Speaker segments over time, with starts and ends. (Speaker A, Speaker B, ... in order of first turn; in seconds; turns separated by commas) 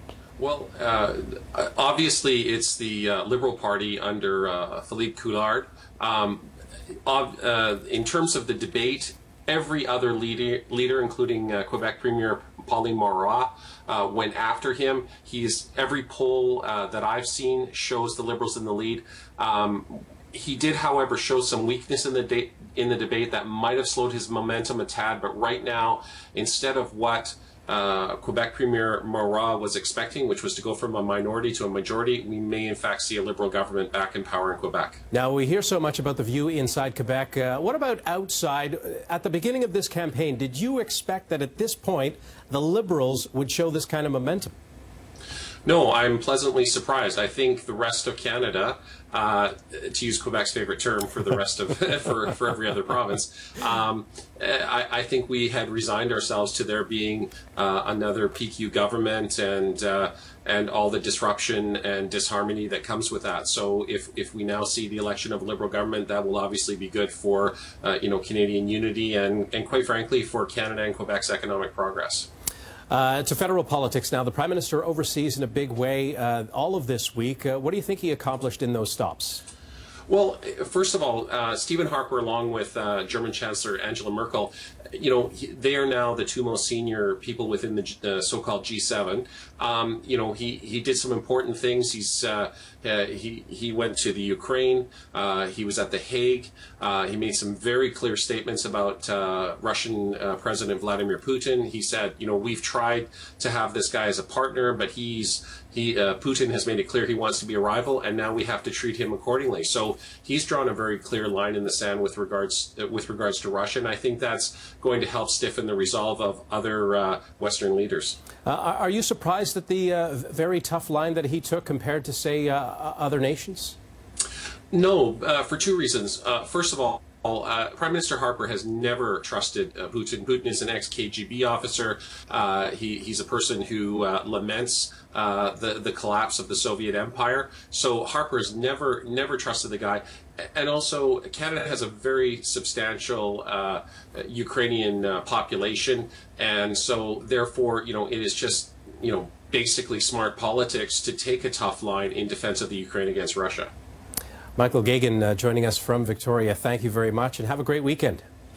Speaker A: 0.4-6.5, Speaker A: 7.0-35.0, Speaker B: 35.1-44.5, Speaker A: 45.6-72.3, Speaker B: 72.9-79.4, Speaker A: 80.1-118.2, Speaker B: 118.4-123.8, Speaker A: 124.7-153.7, Speaker B: 154.6-158.2